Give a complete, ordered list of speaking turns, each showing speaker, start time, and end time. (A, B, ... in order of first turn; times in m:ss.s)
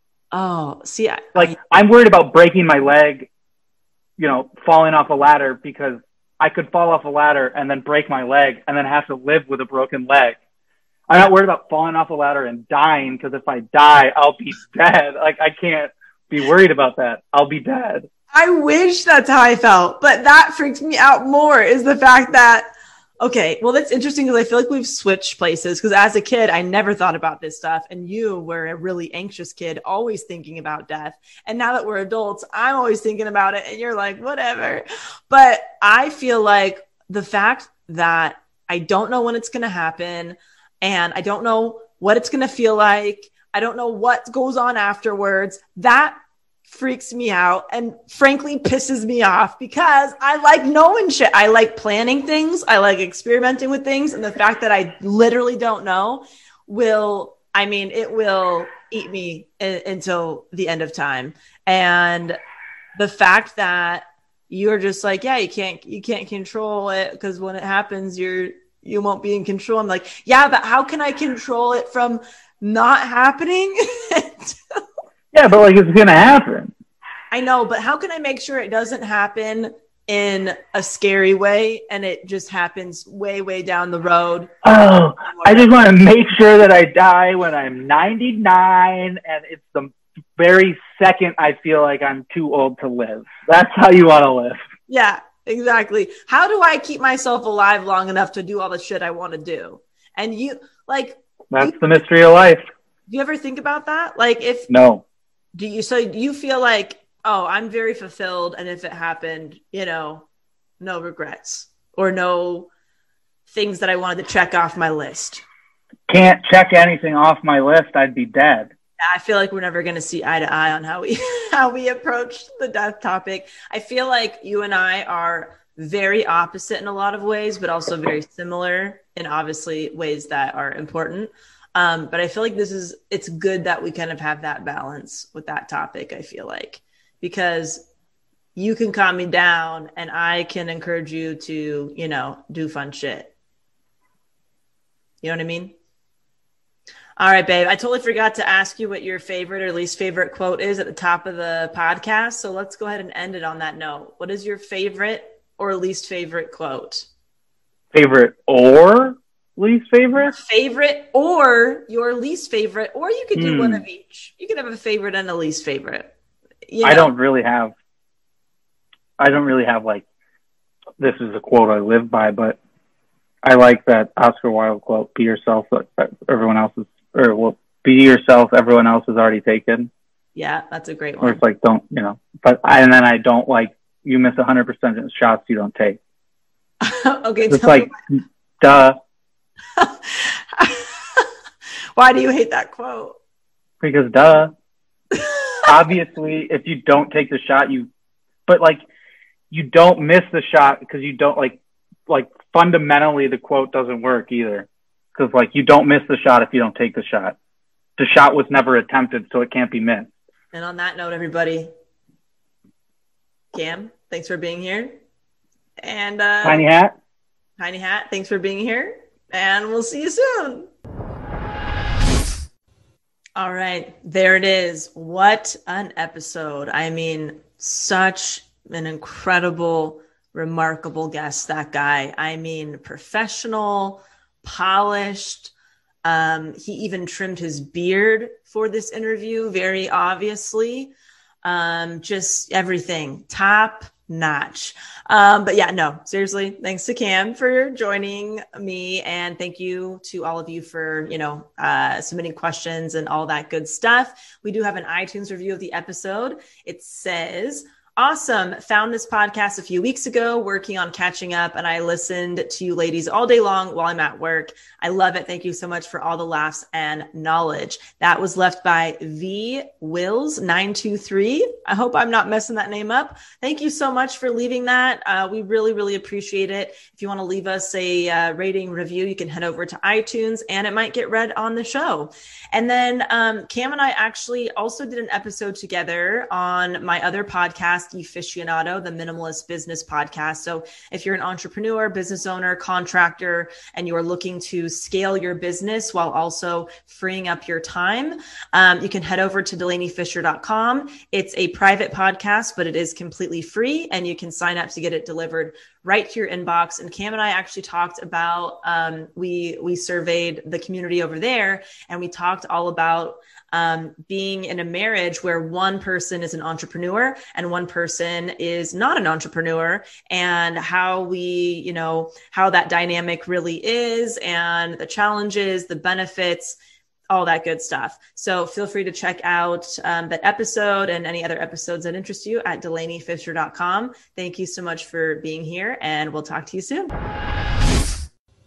0:00.3-0:01.6 A
0:01.4-0:03.3 B
0:04.2-0:10.4 B
0:11.1-0:18.1 B
0:18.3-0:22.7 A
0:23.2-0:46.2 A
0:46.7-1:02.4 A
1:03.0-1:14.8 A
1:15.3-1:16.7 B
1:17.3-1:24.6 A
1:24.6-1:34.6 B
1:25.2-1:25.7 A
1:34.9-1:41.9 A
1:41.5-1:42.6 B
1:43.1-1:44.7 A
1:44.7-1:45.0 B
1:45.6-1:50.3 A
1:50.8-1:52.7 A
1:53.5-1:55.4 A
1:56.1-1:58.7 B
1:59.0-2:17.8 A
2:18.6-2:23.3 A
2:25.2-2:25.7 A
2:27.2-2:37.1 A
2:37.9-2:40.3 B
2:40.3-2:46.1 A
2:43.4-2:43.8 B
2:46.7-2:47.1 A
2:46.8-2:47.7 B
2:49.2-2:50.0 B
2:51.0-2:52.6 B
2:53.4-2:59.9 B
3:00.4-3:01.4 A
3:01.2-3:06.0 B
3:06.8-3:07.9 A
3:07.5-3:09.0 B
3:09.8-3:11.3 A
3:12.0-3:13.2 A
3:13.8-3:14.5 B
3:15.1-3:15.6 A
3:15.6-3:17.9 B
3:18.5-3:18.8 B
3:19.5-3:27.4 B
3:28.0-3:30.1 B
3:30.5-3:31.7 A
3:33.5-3:35.0 A
3:35.8-3:36.6 A
3:36.4-3:36.9 B
3:37.6-3:40.7 A
3:43.4-3:55.5 A
3:56.0-4:00.9 A
4:01.4-5:26.6 A
5:27.1-5:36.9 A